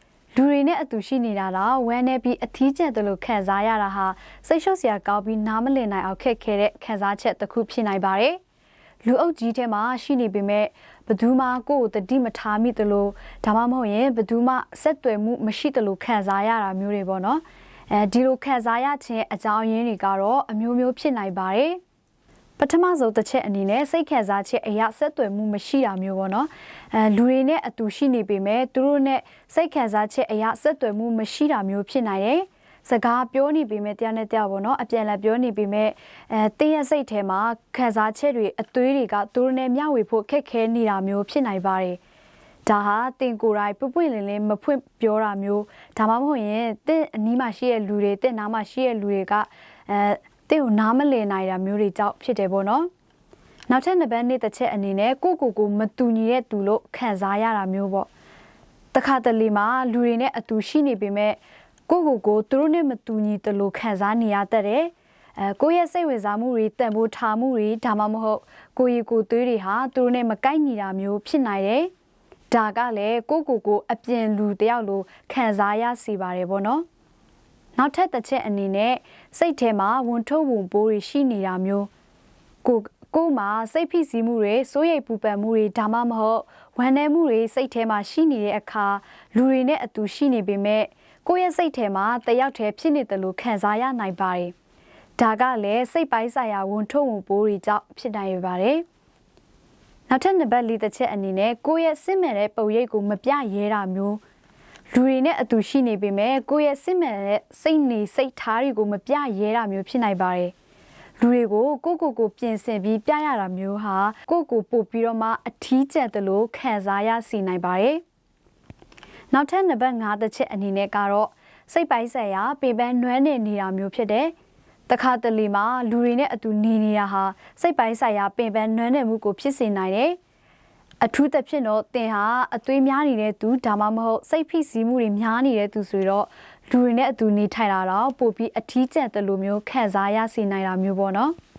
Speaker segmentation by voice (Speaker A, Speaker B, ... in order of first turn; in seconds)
Speaker A: 0.3-8.4, 9.1-21.8, 22.6-42.0, 42.7-52.9, 53.7-58.1, 58.9-71.9, 72.5-76.9, 77.8-81.9, 82.6-94.5, 95.2-98.8, 100.1-104.2, 104.9-110.5, 111.2-118.0, 119.3-124.3, 124.9-130.2, 131.0-141.4